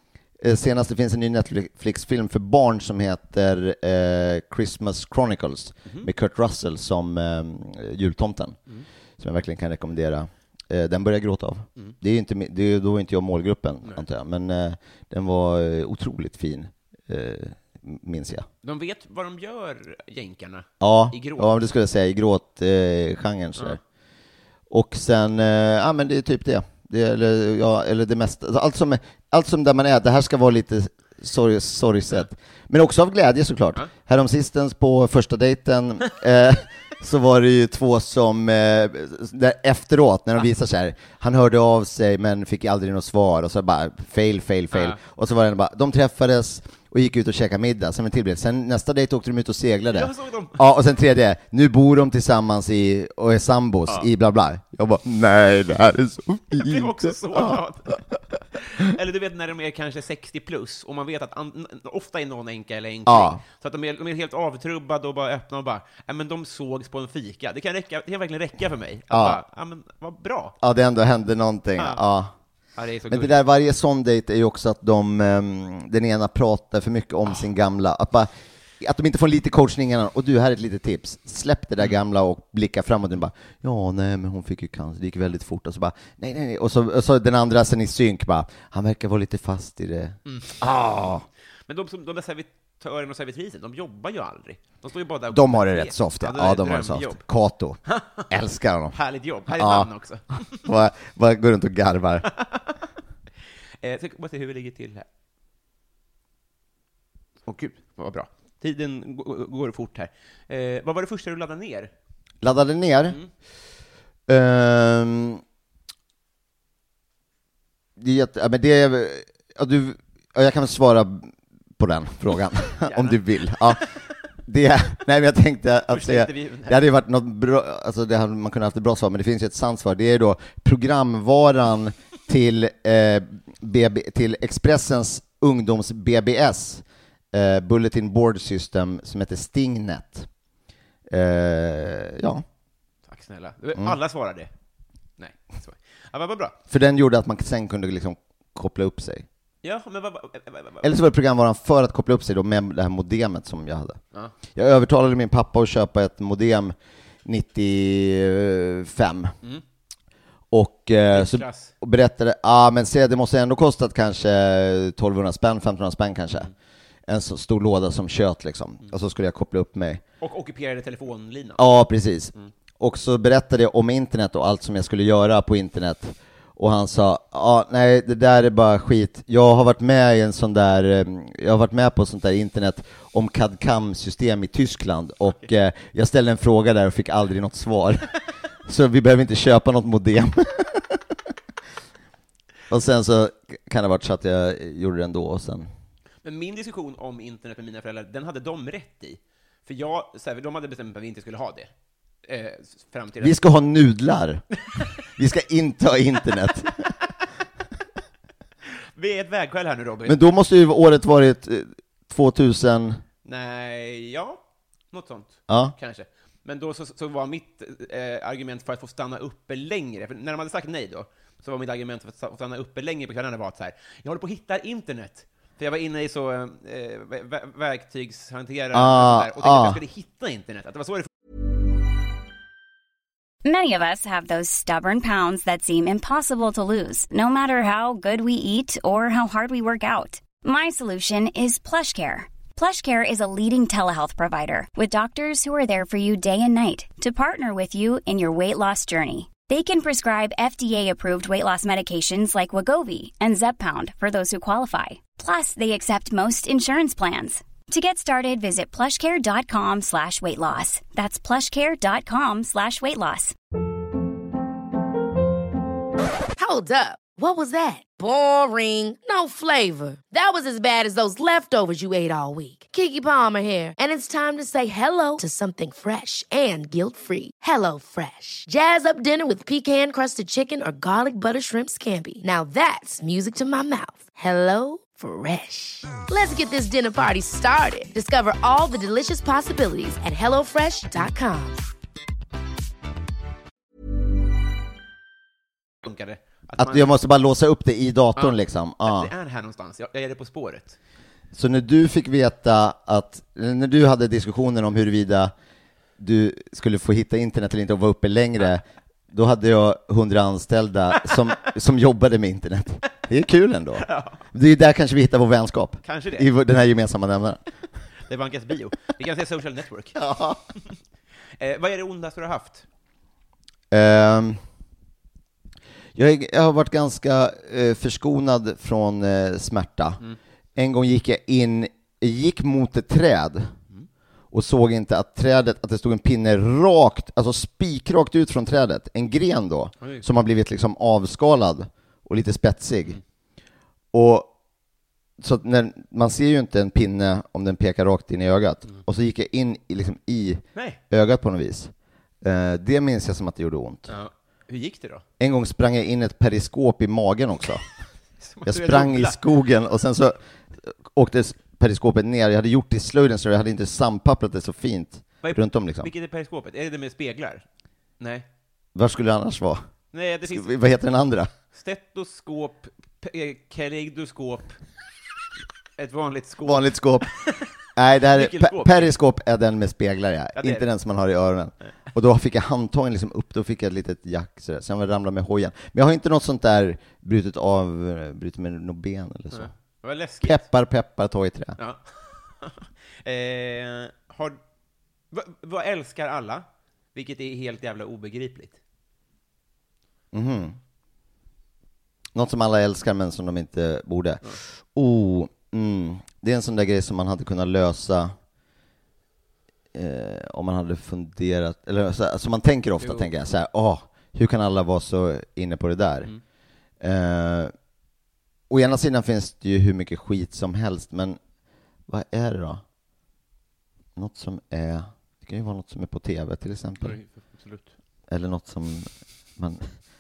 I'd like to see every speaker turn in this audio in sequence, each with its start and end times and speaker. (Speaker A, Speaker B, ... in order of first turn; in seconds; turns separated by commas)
Speaker A: 0.4-8.6, Speaker A: 9.2-18.5, Speaker B: 18.6-21.6, Speaker A: 20.8-23.8, Speaker A: 24.7-57.6, Speaker B: 44.7-45.0, Speaker B: 49.9-50.7, Speaker B: 56.6-58.0, Speaker B: 58.6-70.6, Speaker A: 63.1-63.4, Speaker A: 69.1-69.4, Speaker A: 70.6-72.3, Speaker B: 72.8-73.3, Speaker A: 73.1-91.3, Speaker B: 90.3-90.6, Speaker B: 91.7-97.2, Speaker A: 95.3-99.0, Speaker B: 97.9-98.3, Speaker B: 98.9-100.7, Speaker A: 99.5-99.9, Speaker A: 100.6-102.3, Speaker B: 102.3-102.8, Speaker B: 103.8-105.1, Speaker B: 107.5-111.9, Speaker A: 112.4-113.2, Speaker A: 114.3-115.4, Speaker A: 118.0-123.9, Speaker B: 122.8-123.9, Speaker A: 124.5-140.3, Speaker B: 125.9-126.8, Speaker A: 141.1-142.4, Speaker B: 143.1-144.5, Speaker B: 145.2-146.6, Speaker A: 146.7-149.3, Speaker B: 149.6-150.9, Speaker A: 150.8-154.0, Speaker A: 154.6-159.3, Speaker A: 160.5-166.5, Speaker B: 161.1-161.7, Speaker A: 167.1-170.0, Speaker B: 170.2-171.6, Speaker A: 171.6-188.1, Speaker A: 188.7-191.0, Speaker A: 192.7-195.7, Speaker B: 196.2-201.7, Speaker B: 202.2-203.4, Speaker A: 203.2-204.4, Speaker A: 205.2-206.9, Speaker B: 209.0-210.2, Speaker A: 210.1-213.0, Speaker B: 213.2-214.4, Speaker B: 214.9-231.1, Speaker A: 215.5-215.8, Speaker A: 228.7-229.8, Speaker C: 233.4-263.4, Speaker D: 266.4-291.6, Speaker B: 295.8-296.9, Speaker A: 296.6-299.1, Speaker B: 298.2-300.8, Speaker A: 301.3-305.3, Speaker A: 306.0-317.4, Speaker B: 313.9-314.2, Speaker B: 315.9-316.3, Speaker B: 318.1-320.0, Speaker A: 320.0-320.4, Speaker B: 321.4-322.6, Speaker A: 323.7-324.4, Speaker A: 325.9-330.0, Speaker A: 330.6-333.5, Speaker A: 334.3-343.0, Speaker A: 343.9-344.3, Speaker A: 345.2-351.7, Speaker A: 352.2-353.9, Speaker B: 353.9-355.0, Speaker A: 355.2-357.6, Speaker B: 358.2-359.2, Speaker A: 358.5-365.9, Speaker B: 365.2-367.4, Speaker B: 368.0-368.3, Speaker A: 368.8-369.6, Speaker B: 369.9-370.5, Speaker A: 370.3-371.3, Speaker B: 371.5-374.6, Speaker B: 375.8-377.5, Speaker A: 376.4-377.1, Speaker A: 377.8-389.5, Speaker B: 378.1-378.9, Speaker B: 380.4-380.7, Speaker B: 389.3-390.4, Speaker A: 390.2-391.6, Speaker B: 391.6-394.4, Speaker B: 395.1-398.6, Speaker A: 400.1-400.6, Speaker A: 402.1-408.1, Speaker A: 409.7-416.1, Speaker B: 412.8-413.1, Speaker A: 416.8-417.5, Speaker A: 418.5-421.2, Speaker A: 421.9-422.6, Speaker A: 424.0-427.0, Speaker B: 426.8-427.7, Speaker A: 428.1-429.7